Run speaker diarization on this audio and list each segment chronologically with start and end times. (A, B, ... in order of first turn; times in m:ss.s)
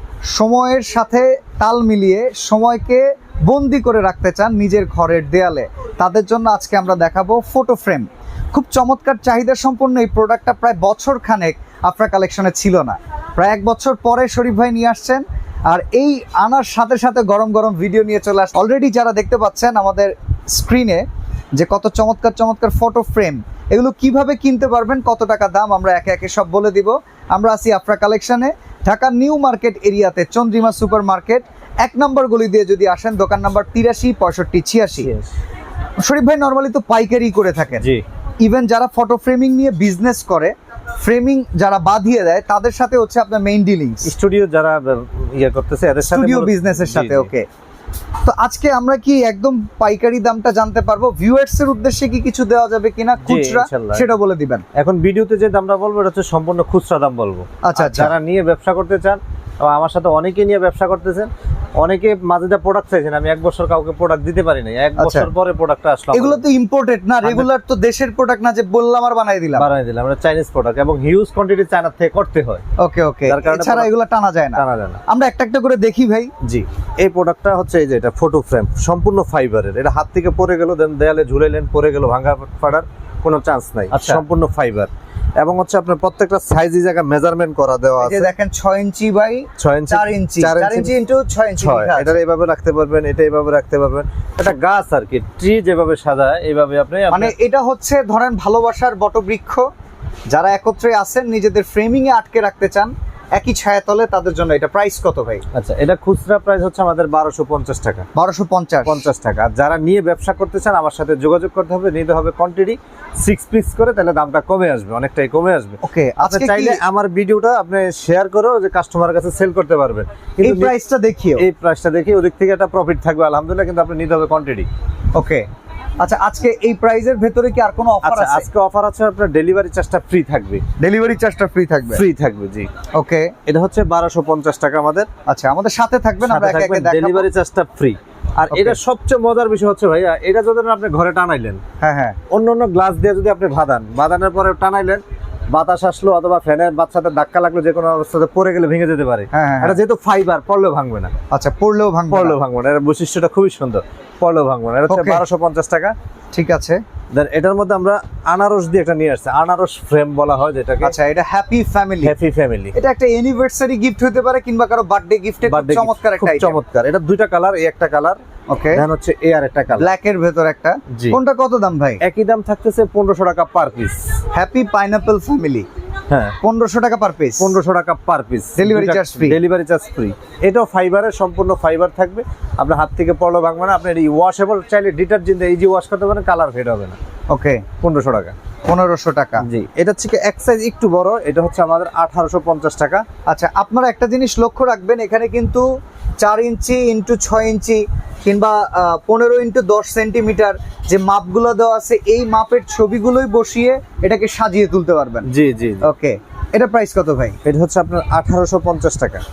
0:00.3-0:35.1 A
0:35.0-0:35.3 B
0:36.0-0:37.9 A
0:38.4-0:44.1 A
0:44.0-0:47.3 B
0:46.1-0:47.5 A
0:48.2-0:54.6 A
0:53.2-0:54.1 B
0:54.8-1:06.4 B
0:57.6-0:58.1 A
1:05.0-1:05.3 A
1:06.1-1:09.7 A
1:07.2-1:07.5 B
1:09.6-1:12.6 B
1:12.8-1:16.3 A
1:13.3-1:13.9 B
1:14.6-1:15.0 B
1:16.4-1:28.3 B
1:23.9-1:24.2 A
1:28.0-1:32.1 A
1:29.6-1:30.9 B
1:31.6-1:37.3 B
1:37.1-1:39.6 A
1:40.3-1:45.4 A
1:45.5-1:48.1 B
1:48.2-1:49.0 A
1:48.9-2:00.7 B
1:55.8-1:56.8 A
2:00.4-2:01.4 A
2:01.4-2:04.7 B
2:05.1-2:05.5 A
2:06.0-2:08.5 A
2:08.0-2:10.6 B
2:10.8-2:12.0 A
2:11.9-2:12.7 B
2:12.9-2:13.3 A
2:13.5-2:15.1 B
2:15.3-2:17.3 A
2:16.2-2:21.6 B
2:18.5-2:18.8 A
2:21.8-2:22.2 A
2:22.3-2:31.1 B
2:29.3-2:29.8 A
2:31.3-2:32.4 A
2:32.1-2:36.0 B
2:34.9-2:35.2 A
2:36.3-2:36.8 A
2:37.1-2:40.9 B
2:40.8-2:42.1 A
2:42.0-2:42.8 B
2:42.7-2:46.6 A
2:45.5-2:48.2 B
2:48.5-2:48.8 A
2:48.7-2:49.9 B
2:49.7-2:52.0 A
2:50.9-2:51.2 B
2:52.0-2:54.0 B
2:54.3-2:55.7 A
2:56.1-2:56.4 B
2:56.4-2:57.6 A
2:57.4-3:07.0 B
2:58.6-2:59.4 A
3:07.3-3:07.6 A
3:07.8-3:08.3 B
3:08.7-3:09.4 A
3:09.4-3:13.0 B
3:13.3-3:15.7 A
3:16.2-3:25.3 A
3:25.3-3:25.9 B
3:25.8-3:27.4 A
3:27.4-3:29.2 B